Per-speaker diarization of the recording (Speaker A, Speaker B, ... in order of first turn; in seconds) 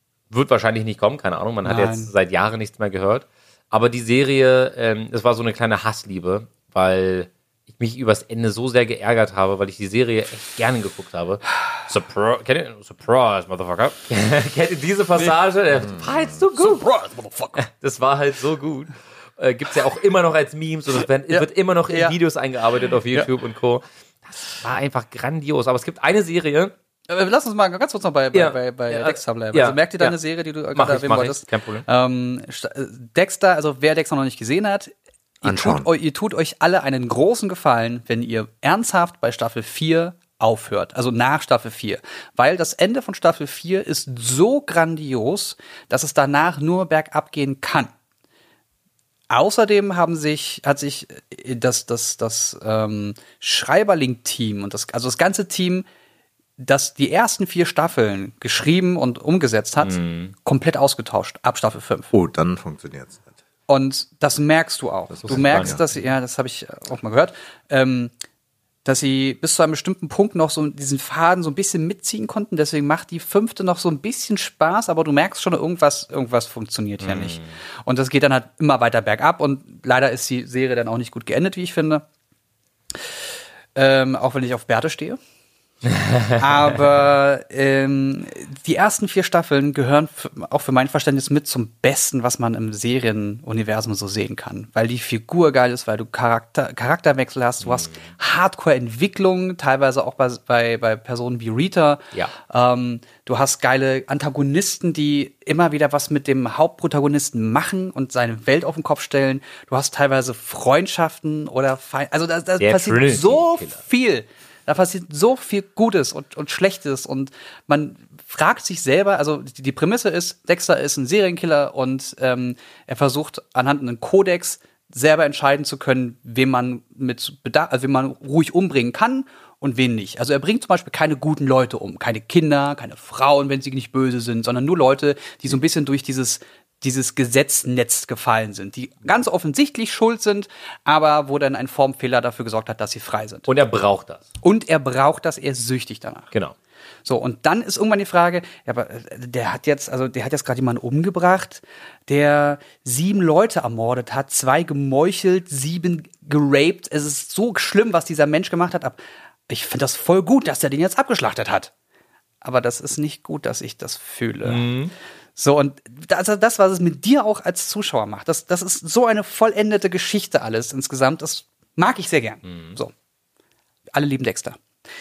Speaker A: 0.3-16.8, 17.6-26.7, 28.3-30.2, 30.7-31.9, 59.8-60.3, 65.2-65.8, 77.0-77.5, 85.9-86.4, 97.6-98.1, 112.6-113.8, 143.5-144.2, 164.4-164.9, 172.4-172.8
Speaker B: 1.6-2.1, 16.5-17.6, 21.3-22.2, 27.1-47.9, 49.3-55.9, 56.6-62.1, 63.7-68.1, 68.8-82.0, 83.7-85.2, 86.4-143.5, 144.4-146.3, 147.0-161.7, 162.4-164.6, 165.3-172.9, 173.9-174.6
Speaker C: 35.4-35.9, 62.1-63.2, 65.1-65.8